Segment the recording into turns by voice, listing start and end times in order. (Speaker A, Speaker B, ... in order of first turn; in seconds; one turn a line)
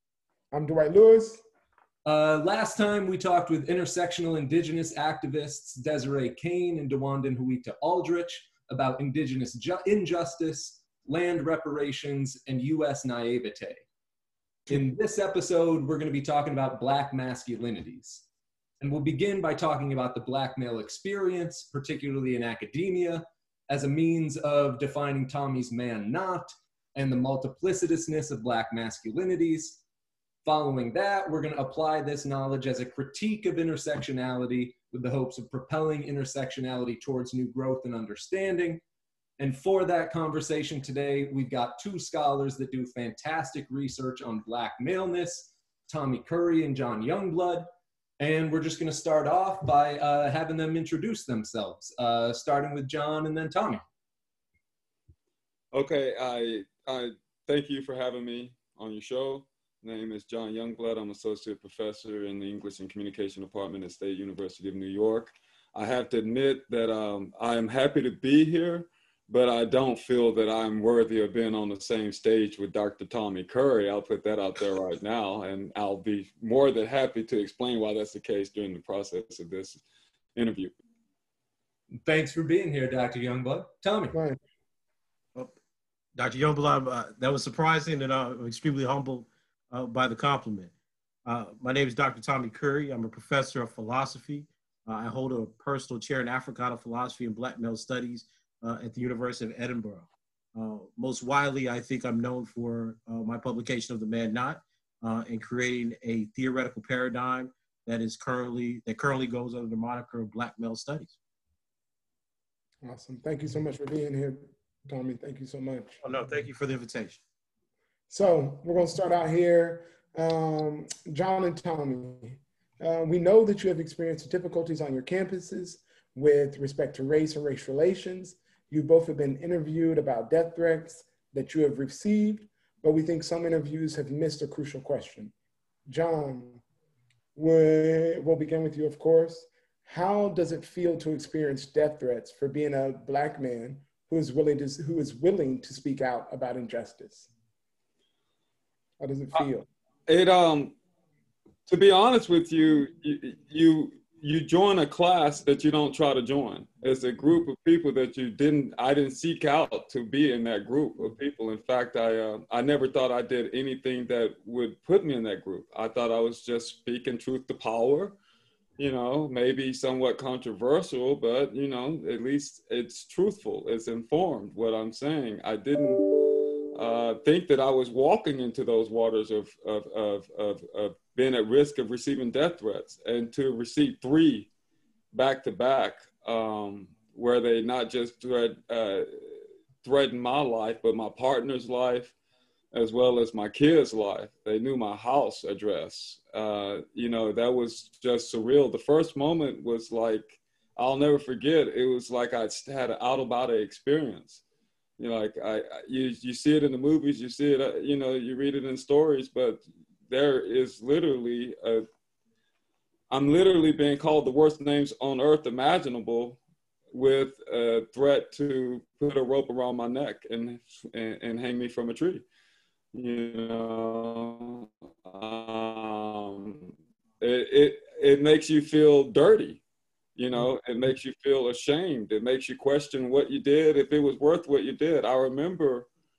Speaker A: 0.5-1.4
Speaker B: 2.0-13.9
Speaker B: 14.7-18.3
Speaker B: 18.8-29.8
Speaker B: 30.4-38.8
Speaker B: 39.4-53.9
Speaker C: 55.7-79.8
Speaker C: 80.4-80.7
Speaker B: 82.0-84.2
Speaker A: 84.1-84.4
Speaker D: 86.2-90.7
Speaker D: 91.2-111.2
Speaker A: 112.8-116.0
Speaker D: 116.0-117.2
Speaker A: 118.1-135.3
Speaker A: 135.9-136.6
Speaker A: 137.4-147.3
Speaker A: 149.0-149.7
Speaker C: 150.1-150.8
Speaker C: 151.7-168.2
Speaker C: 168.8-184.5
Speaker C: 185.1-189.1
Speaker C: 189.8-192.2
Speaker C: 192.7-204.4
Speaker C: 205.0-211.8
Speaker C: 213.1-216.4
Speaker C: 216.9-222.2
Speaker C: 222.9-229.6
Speaker C: 230.2-235.9